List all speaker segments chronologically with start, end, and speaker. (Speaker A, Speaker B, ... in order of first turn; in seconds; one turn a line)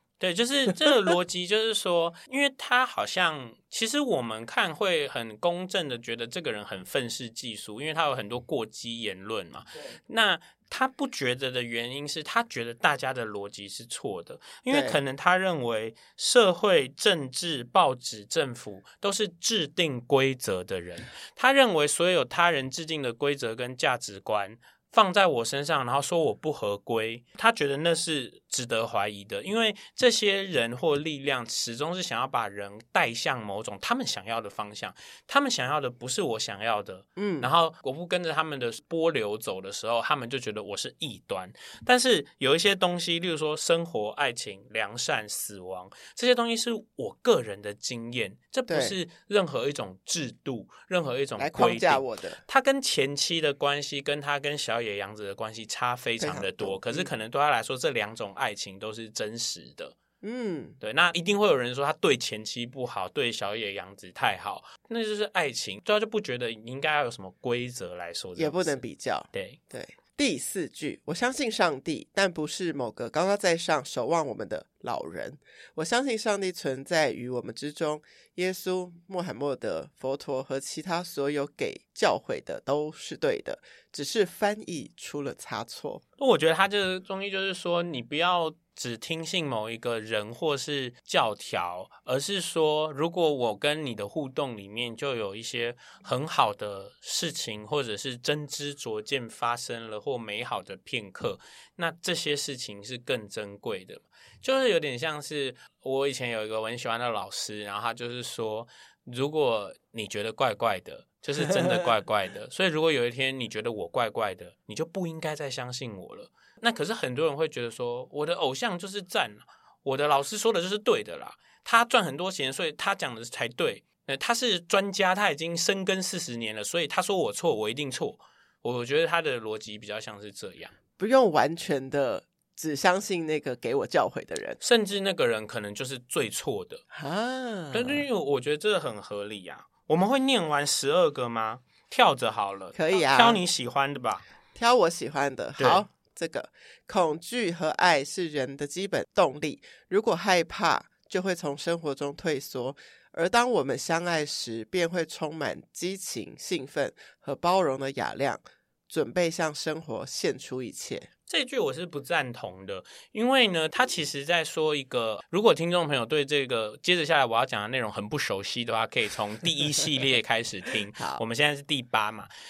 Speaker A: 0.2-60.0
Speaker B: 14.7-15.0
Speaker B: 37.2-37.5
Speaker B: 48.7-48.9
Speaker B: 51.4-52.4
Speaker B: 56.2-57.1
Speaker B: 60.2-60.8
Speaker A: 60.8-68.8
Speaker B: 68.4-86.0
Speaker A: 69.3-69.6
Speaker A: 86.2-130.7
Speaker B: 111.4-111.8
Speaker B: 131.0-134.6
Speaker A: 134.6-136.8
Speaker B: 136.9-138.0
Speaker A: 137.7-144.2
Speaker B: 142.7-143.4
Speaker B: 144.5-161.1
Speaker A: 145.6-145.8
Speaker A: 161.3-172.3
Speaker B: 170.9-171.2